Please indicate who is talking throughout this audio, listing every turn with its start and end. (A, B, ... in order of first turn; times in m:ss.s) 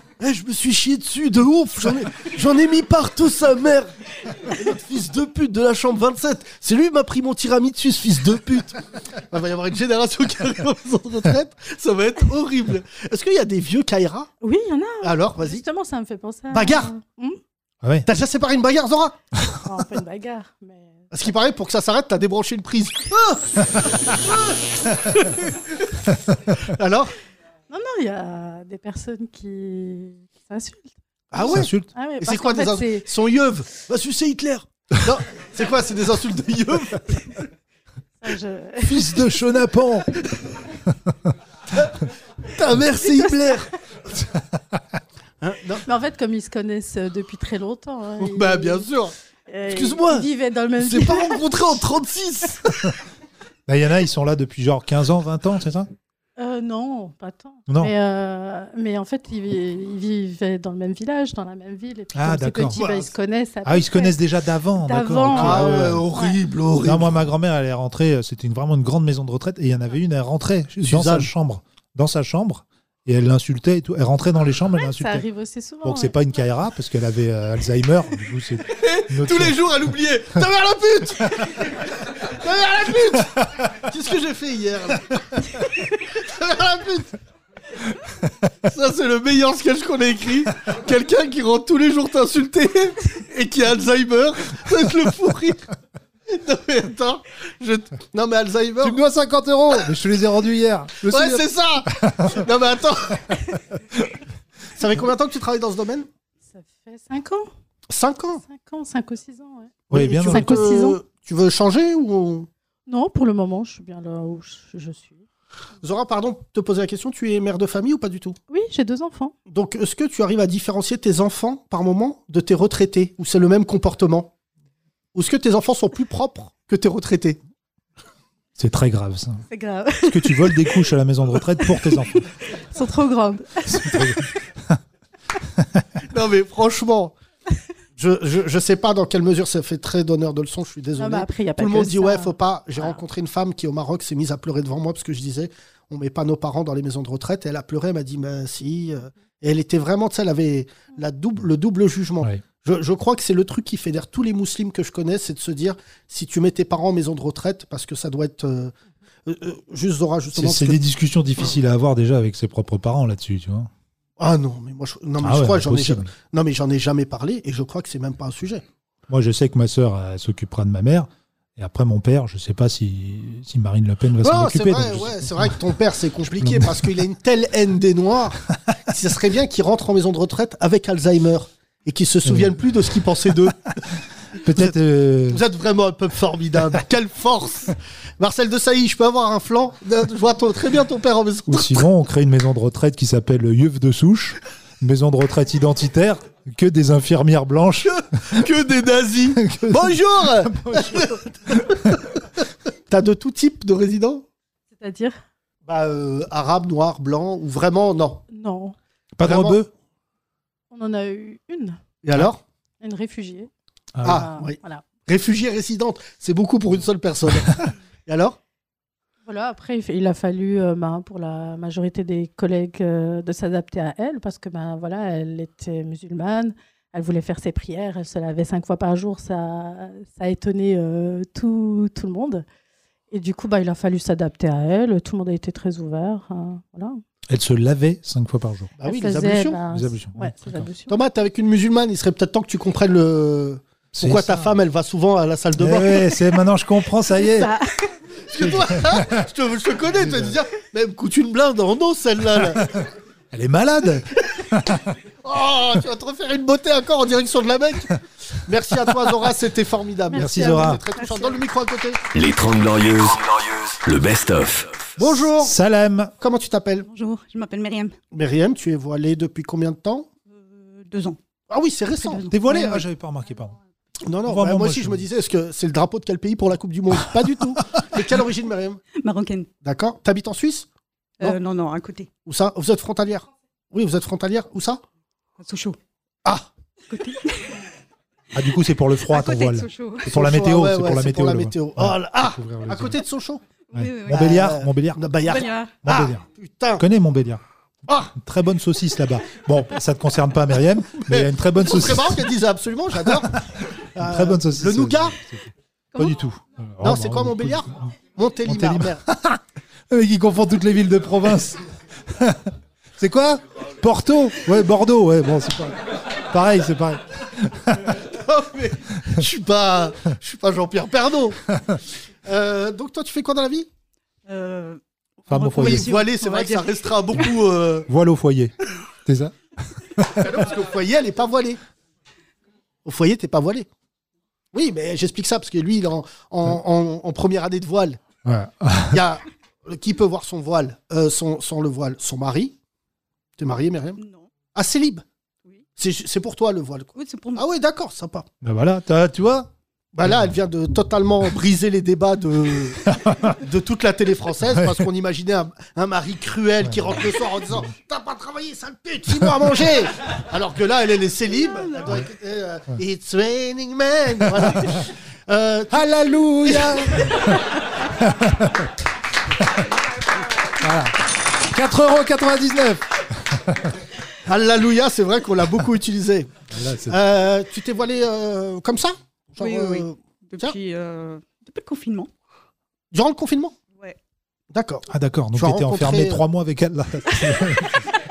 0:00.2-0:14.3 A
0:14.4-0:17.4 B
0:15.0-0:15.6 A
0:16.5-0:16.9 A
0:18.1-0:19.2 A
0:19.6-0:21.1 B
0:21.1-0:25.5 A
0:26.6-0:27.1 A
0:27.7-0:30.9 B
0:31.3-0:37.4 A
0:31.4-0:31.9 C
0:31.9-0:33.1 B
0:38.2-0:39.4 B
0:38.8-0:40.1 C
0:42.5-0:43.7 A
0:43.1-0:43.6 B
0:45.4-0:45.9 A
0:45.9-0:48.9 B
0:48.2-0:49.1 A
0:49.5-0:51.8 B
0:49.7-0:52.9 A
0:53.7-0:55.9 C
0:56.4-1:04.2 B
0:57.7-0:57.9 C
1:02.1-1:02.8 C
1:02.8-1:03.1 A
1:03.6-1:06.1 C
1:04.8-1:06.4 B
1:05.3-1:07.2 A
1:06.8-1:15.3 C
1:10.8-1:11.3 A
1:14.8-1:16.2 B
1:15.8-1:19.7 C
1:18.7-1:27.1 A
1:28.6-1:35.7 A
1:36.3-1:39.0 A
1:38.8-1:42.4 C
1:41.0-1:43.4 A
1:44.8-1:46.1 A
1:46.5-1:47.5 B
1:47.9-1:48.4 A
1:48.4-1:51.0 B
1:49.9-1:50.7 C
1:49.9-1:52.5 A
1:52.9-1:55.2 B
1:55.8-1:58.4 A
1:58.5-1:59.4 B
1:59.5-2:04.3 A
2:05.2-2:07.4 A
2:08.6-2:09.4 C
2:09.5-2:10.9 B
2:10.0-2:12.3 C
2:11.5-2:14.3 B
2:13.7-2:14.8 C
2:16.1-2:17.1 A
2:18.0-2:38.7 A
2:21.0-2:22.4 B
2:39.3-2:40.8 A
2:40.4-2:43.7 C
2:44.2-2:48.6 A
2:45.2-2:46.1 C
2:49.1-2:55.6 C
2:54.2-3:03.6 A
2:56.4-2:56.9 C
3:02.2-3:02.8 C
3:04.4-3:05.4 C
3:05.3-3:11.8 A
3:11.5-3:18.0 C
3:17.8-3:22.2 A
3:19.4-3:22.0 C
3:22.9-3:24.2 A
3:24.7-3:25.2 B
3:25.7-3:28.2 A
3:28.3-3:28.8 B
3:29.2-3:29.7 C
3:29.2-3:29.6 A
3:30.7-3:31.8 B
3:32.0-3:32.4 A
3:32.8-3:33.5 B
3:34.0-3:34.3 C
3:34.0-3:38.4 A
3:34.0-3:34.8 B
3:39.2-3:52.4 B
3:53.1-3:57.0 B
3:57.3-3:58.7 C
3:58.8-3:59.6 A
3:58.8-4:01.0 B
3:59.7-4:00.7 C
4:00.9-4:06.2 A
4:03.9-4:04.6 C
4:05.6-4:07.5 C
4:08.3-4:12.6 A
4:08.4-4:09.2 C
4:10.0-4:10.4 C
4:12.5-4:14.8 C
4:15.2-4:22.0 A
4:20.1-4:20.8 B
4:20.2-4:20.8 C
4:21.0-4:21.4 D
4:22.1-4:24.8 E
4:25.0-4:25.6 A
4:25.3-4:26.1 C
4:26.2-4:26.9 A
4:26.8-4:28.0 D
4:28.1-4:30.1 A
4:30.3-4:31.2 D
4:31.5-4:32.3 A
4:31.9-4:32.8 D
4:32.3-4:33.6 C
4:34.1-4:38.8 A
4:34.2-4:35.0 C
4:39.0-4:39.5 D
4:39.6-4:40.7 A
4:41.2-4:42.1 D
4:42.2-4:44.8 A
4:45.4-4:45.8 D
4:46.9-4:47.5 D
4:48.3-4:53.0 C
4:49.1-4:50.1 D
4:50.1-4:53.4 A
4:53.7-4:54.3 D
4:53.7-4:55.0 C
4:54.1-4:56.8 A
4:55.2-4:55.8 D
4:55.8-4:56.2 C
4:56.8-4:57.4 C
4:58.1-5:02.2 C
5:01.0-5:03.4 A
5:03.0-5:03.4 C
5:04.0-5:07.9 C
5:04.0-5:05.2 A
5:06.8-5:09.0 A
5:08.4-5:18.0 C
5:18.0-5:21.4 A
5:22.3-5:23.7 A
5:24.3-5:27.3 D
5:25.3-5:25.9 C
5:25.6-5:27.9 A
5:27.9-5:28.5 C
5:29.1-5:29.3 C
5:30.0-5:30.3 C
5:30.2-5:31.6 A
5:32.8-5:33.7 A
5:34.5-5:38.0 A
5:38.2-5:39.0 C
5:38.9-5:42.6 A
5:43.4-5:44.0 A
5:44.0-5:44.3 D
5:44.5-5:45.0 A
5:45.8-5:48.3 A
5:47.0-5:47.4 D
5:48.4-5:49.5 C
5:49.9-6:05.9 A
5:50.0-5:50.3 C
5:52.8-5:53.4 C
5:54.4-5:54.9 C
5:56.6-5:57.0 C
6:04.3-6:04.8 C
6:05.7-6:08.7 C
6:06.4-6:07.2 A
6:10.6-6:13.7 C
6:14.2-6:16.3 A
6:16.5-6:17.0 C
6:16.9-6:20.6 A
6:19.4-6:22.1 D
6:22.9-6:23.6 A
6:24.5-6:26.2 A
6:24.9-6:27.8 C